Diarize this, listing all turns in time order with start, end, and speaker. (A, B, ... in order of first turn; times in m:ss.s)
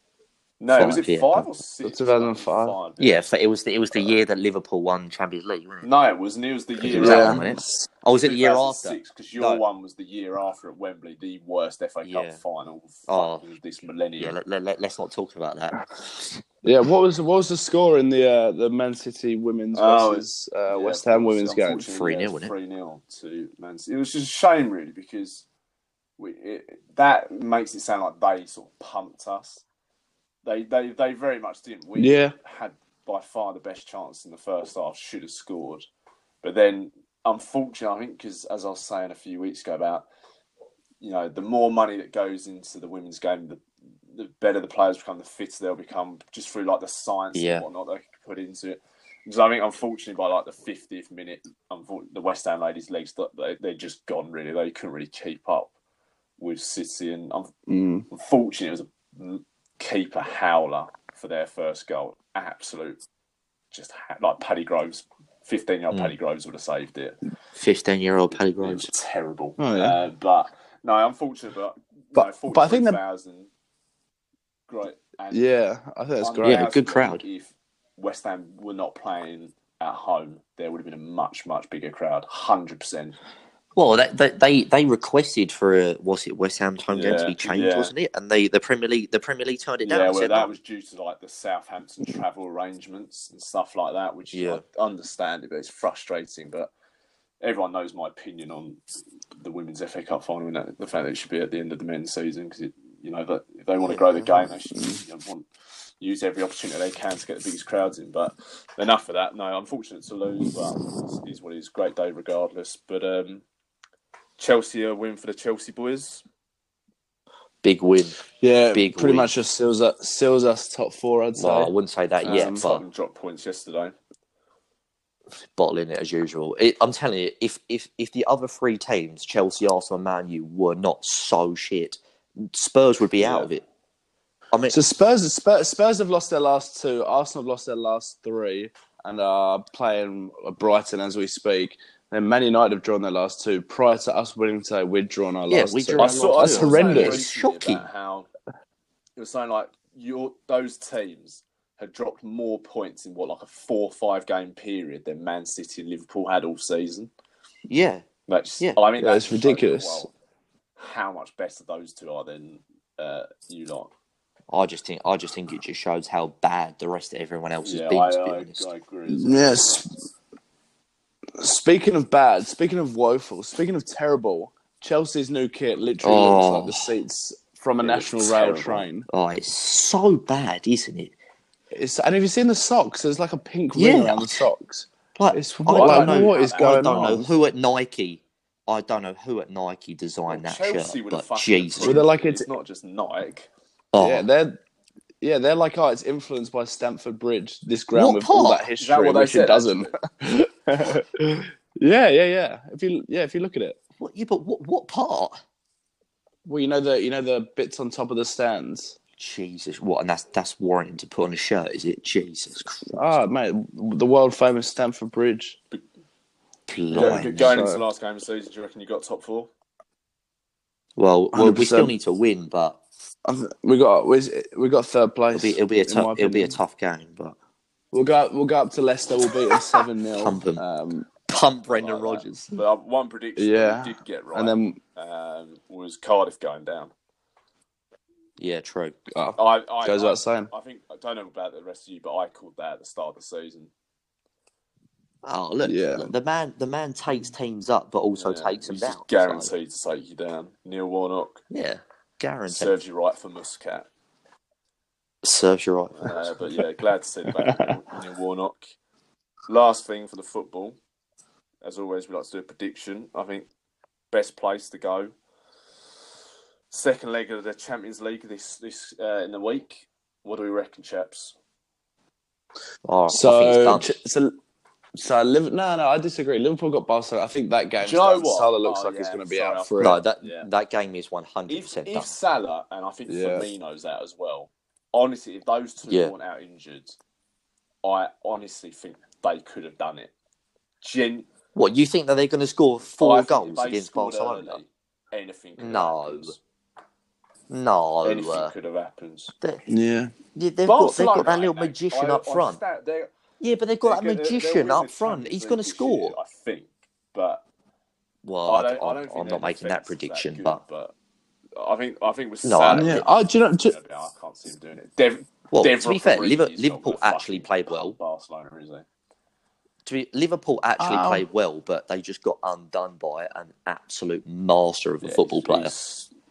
0:00.6-0:03.3 A
0:00.7-0:01.4 B
0:01.8-0:02.8 C
0:03.0-0:05.9 B
0:05.8-0:07.6 A
0:06.8-0:09.6 B
0:07.0-0:07.5 C
0:08.2-0:14.4 A
0:12.0-0:12.4 B
0:13.1-0:13.4 B
0:14.2-0:16.4 B
0:16.6-0:21.8 C
0:19.7-0:25.4 A
0:21.9-0:22.5 B
0:26.2-0:29.6 A
0:30.4-0:35.9 A
0:32.0-0:32.3 C
0:36.4-0:40.1 A
0:41.0-0:55.7 A
0:47.3-0:47.6 B
0:56.4-0:57.5 A
0:57.7-0:58.1 C
0:58.1-1:03.0 A
1:03.7-1:07.2 A
1:07.6-1:08.9 B
1:08.6-1:13.5 A
1:09.6-1:10.0 C
1:12.2-1:13.0 C
1:14.7-1:15.4 A
1:15.3-1:16.6 C
1:16.2-1:23.2 A
1:16.4-1:17.2 B
1:23.7-1:30.5 B
1:26.9-1:27.9 A
1:29.8-1:36.7 A
1:34.3-1:34.6 B
1:37.4-1:38.8 A
1:39.4-1:45.5 A
1:43.9-1:44.3 B
1:44.8-1:45.0 C
1:46.0-1:53.4 A
1:54.4-1:56.2 A
1:57.6-1:58.2 B
1:58.4-2:01.7 C
1:58.7-1:59.3 B
2:01.4-2:02.8 B
2:02.2-2:04.0 A
2:02.3-2:02.6 C
2:05.5-2:13.6 B
2:13.2-2:13.5 A
2:14.7-2:27.2 C
2:25.5-2:27.9 B
2:26.0-2:28.3 A
2:29.2-2:37.1 A
2:37.7-2:38.0 B
2:38.3-2:40.1 A
2:39.0-2:40.1 C
2:40.8-2:43.9 A
2:44.5-2:48.7 B
2:47.6-2:49.9 A
2:49.1-2:49.9 C
2:51.4-2:59.1 C
2:56.0-2:56.8 B
2:57.8-2:58.9 A
2:59.1-3:01.1 B
3:01.7-3:07.3 C
3:03.7-3:04.4 B
3:05.2-3:12.0 B
3:05.7-3:07.2 A
3:10.3-3:13.5 A
3:11.8-3:12.5 C
3:13.9-3:14.3 B
3:14.0-3:14.6 C
3:15.2-3:23.8 C
3:17.9-3:18.7 B
3:18.8-3:19.9 A
3:24.0-3:25.4 B
3:26.4-3:29.0 C
3:29.2-3:33.2 B
3:32.9-3:35.6 C
3:36.7-3:37.5 B
3:36.9-3:37.8 C
3:36.9-3:39.5 A
3:41.0-3:42.8 B
3:41.3-3:41.9 C
3:43.3-3:46.6 C
3:45.3-3:47.4 B
3:47.9-3:51.1 C
3:50.2-3:50.6 B
3:51.3-3:52.5 B
3:51.7-3:56.9 A
3:53.4-3:54.8 C
3:58.4-3:59.0 B
3:59.1-4:00.5 C
3:59.4-4:03.7 A
4:05.2-4:09.5 B
4:05.6-4:06.1 C
4:08.2-4:11.4 A
4:11.5-4:12.8 B
4:12.5-4:13.9 A
4:15.2-4:16.1 B
4:16.0-4:18.7 A
4:17.4-4:17.7 C
4:19.5-4:20.8 A
4:21.6-4:23.5 A
4:24.1-4:25.1 A
4:26.7-4:31.4 A
4:32.8-4:34.0 B
4:33.1-4:34.4 C
4:34.9-4:40.0 C
4:37.8-4:40.5 A
4:39.8-4:42.1 B
4:41.5-4:47.0 A
4:43.1-4:43.5 C
4:45.9-4:46.1 B
4:47.8-4:50.1 A
4:50.8-4:51.3 A
4:51.5-4:54.6 B
4:53.0-4:56.4 A
4:55.6-4:56.4 B
4:57.5-4:58.5 B
4:58.0-4:59.3 A
4:59.7-5:00.1 C
5:00.3-5:02.6 B
5:00.6-5:03.1 A
5:03.4-5:06.2 B
5:03.8-5:07.4 A
5:08.2-5:10.6 B
5:08.4-5:10.9 A
5:11.6-5:18.8 A
5:12.4-5:13.0 B
5:12.7-5:13.7 C
5:15.5-5:18.0 B
5:19.8-5:25.7 B
5:20.8-5:21.2 C
5:25.0-5:26.1 A